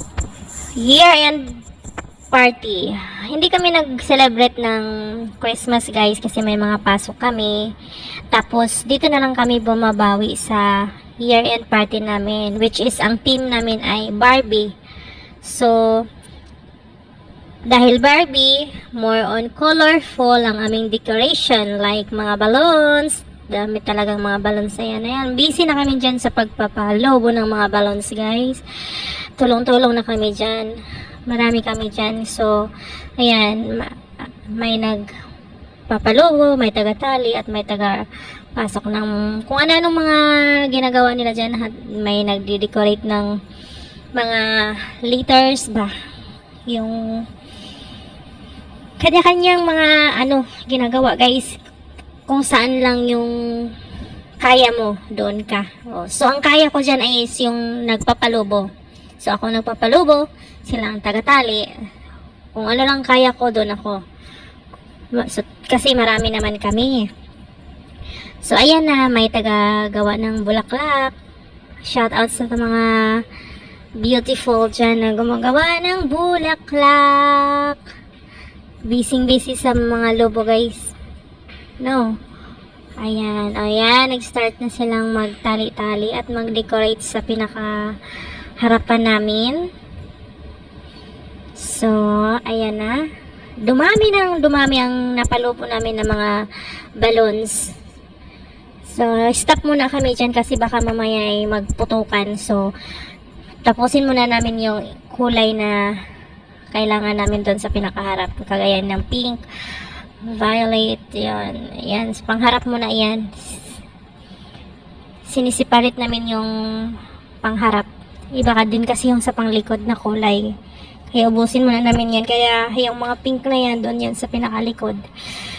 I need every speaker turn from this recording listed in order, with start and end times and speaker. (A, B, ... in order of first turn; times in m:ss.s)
0:00.8-0:01.6 A
0:02.3-0:04.9 A
0:05.4-0:07.7 A
0:08.3-0:10.7 A
0:11.2-0:14.7 A
0:15.4-0:16.1 A
0:17.7-0:30.7 A
0:31.3-0:32.6 A
0:33.2-0:35.1 A
0:35.9-0:43.3 A
0:44.2-0:45.9 A
0:46.7-0:47.2 A
0:49.0-0:51.6 A
0:52.3-0:53.7 A
0:54.4-0:58.7 A
0:59.2-1:01.6 A
1:02.6-1:04.0 A
1:05.1-1:07.1 A
1:08.4-1:11.2 A
1:11.8-1:13.2 A
1:14.0-1:17.8 A
1:18.8-1:21.0 A
1:21.8-1:22.1 A
1:23.0-1:27.8 A
1:28.6-1:29.6 A
1:31.6-1:33.0 A
1:33.6-1:36.3 A
1:37.0-1:37.6 A
1:38.9-1:42.7 A
1:43.6-1:45.8 A
1:46.7-1:49.4 A
1:50.2-1:53.7 A
1:55.3-1:56.5 A
1:57.4-2:00.5 A
2:01.1-2:05.0 A